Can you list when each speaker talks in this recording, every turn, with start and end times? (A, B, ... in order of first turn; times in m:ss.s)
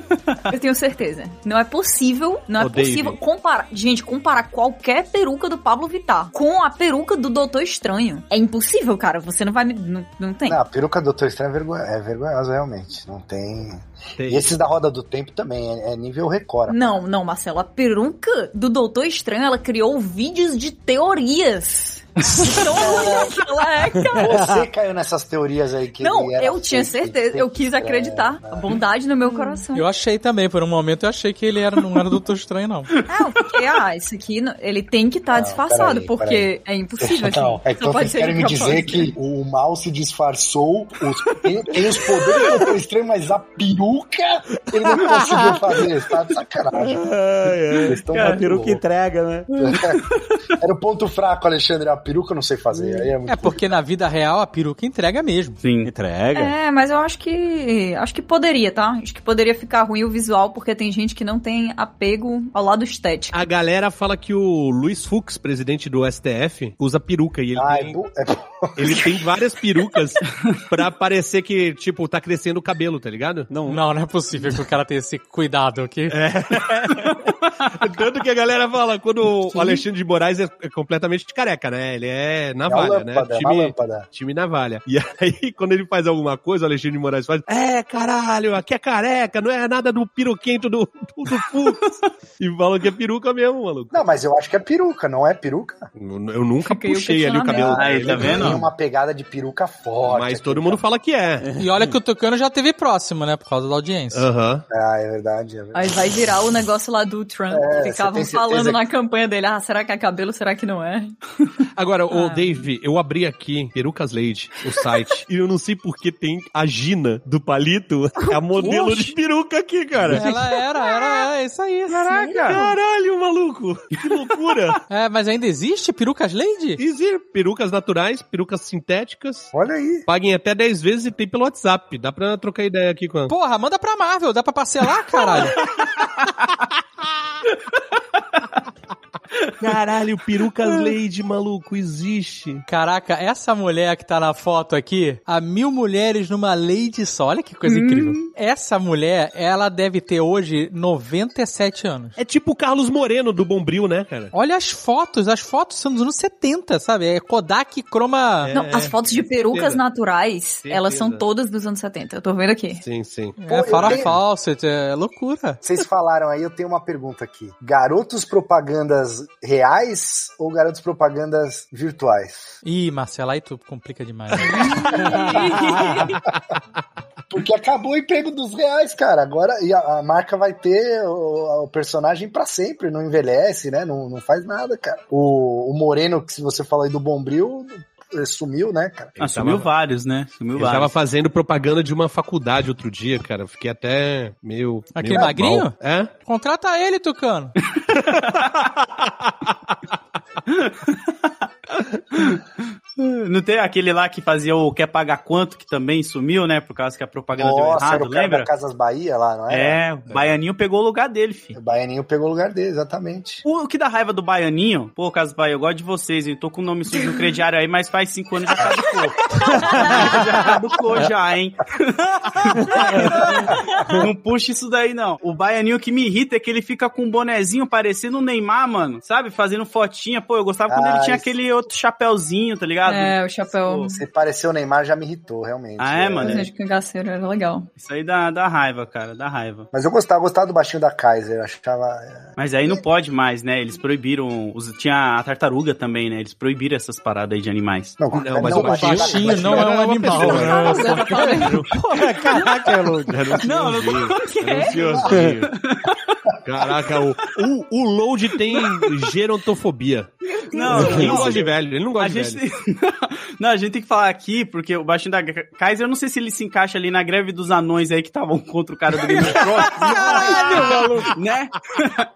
0:00.5-0:10.6 A
0:02.6-0:03.2 B
0:10.4-0:16.8 C
0:14.2-0:14.5 B
0:16.7-0:24.3 A
0:22.7-0:23.3 C
0:24.2-0:24.6 D
0:24.2-0:28.8 C
0:26.0-0:29.8 A
0:29.7-0:32.9 E
0:33.1-0:39.1 A
0:35.3-0:47.1 C
0:45.0-0:45.6 D
0:46.8-0:49.5 D
0:47.8-0:48.8 C
0:48.1-0:48.4 F
0:49.5-0:50.3 F
0:49.6-0:50.0 C
0:50.6-0:53.6 C
0:52.7-0:53.1 D
0:53.3-0:55.6 E
0:55.6-0:55.9 F
0:55.8-0:56.5 D
0:56.3-1:03.4 A
1:03.3-1:08.0 B
1:07.6-1:09.3 C
1:08.8-1:13.5 B
1:13.5-1:13.8 D
1:13.7-1:16.2 E
1:16.1-1:31.8 B
1:22.7-1:24.1 C
1:32.4-1:34.0 B
1:33.9-1:35.9 C
1:35.9-1:38.6 B
1:36.6-1:38.1 A
1:37.6-1:40.8 C
1:37.6-1:38.6 F
1:40.1-1:41.5 B
1:41.4-1:41.9 D
1:41.6-1:44.2 E
1:44.1-1:44.6 B
1:44.7-1:46.0 C
1:45.7-1:51.2 A
1:47.5-1:48.9 C
1:51.7-2:00.3 B
1:52.1-1:52.6 A
1:58.2-1:59.0 A
2:00.1-2:02.5 E
2:00.1-2:00.4 D
2:01.9-2:04.8 B
2:02.0-2:02.7 A
2:04.9-2:06.8 E
2:06.8-2:09.5 B
2:09.5-2:10.0 C
2:10.1-2:13.3 B
2:13.3-2:15.6 E
2:19.6-2:22.6 B
2:22.7-2:32.2 E
2:27.6-2:28.3 A
2:32.2-2:34.3 B
2:34.3-2:38.5 E
2:38.4-2:39.8 B
2:38.5-2:42.8 A
2:40.6-2:41.2 B
2:42.8-2:44.2 B
2:43.4-2:45.6 E
2:43.5-2:44.1 C
2:45.6-2:52.6 C
2:52.6-2:55.1 E
2:54.4-2:56.1 C
2:55.0-2:56.0 D
2:55.1-2:56.1 A
2:57.3-3:09.2 C
3:09.2-3:09.7 B
3:09.2-3:11.0 F
3:10.5-3:16.1 B
3:15.0-3:17.5 E
3:15.1-3:15.4 C
3:17.8-3:18.5 F
3:17.9-3:18.2 B
3:20.5-3:21.3 F
3:22.1-3:22.4 F
3:23.0-3:28.5 F
3:27.3-3:29.8 C
3:29.5-3:31.6 F
3:31.5-3:33.4 C
3:33.4-3:53.9 F
3:36.9-3:37.3 A
3:39.6-3:40.2 D
3:39.7-3:40.2 A
3:42.6-3:43.1 D
3:43.3-3:43.9 A
3:43.5-3:44.0 C
3:50.7-3:51.3 C
3:52.8-3:54.0 A
3:53.9-3:56.5 C
3:55.8-3:56.5 F
3:56.2-3:57.7 A
3:57.8-3:59.7 F
3:59.7-4:02.8 C
4:02.4-4:08.0 F
4:08.0-4:10.7 C
4:08.1-4:11.6 B
4:08.5-4:11.2 E
4:10.2-4:11.6 A
4:11.4-4:13.4 D
4:12.3-4:12.7 A
4:13.0-4:15.5 B
4:13.4-4:14.2 F
4:14.1-4:15.0 A
4:14.9-4:15.3 C
4:15.0-4:15.4 D
4:15.2-4:16.1 F
4:16.4-4:20.1 B
4:18.5-4:18.8 F
4:20.4-4:32.1 F
4:20.5-4:21.2 A
4:20.7-4:21.2 D
4:20.7-4:22.4 B
4:29.3-4:30.6 C
4:29.6-4:31.1 D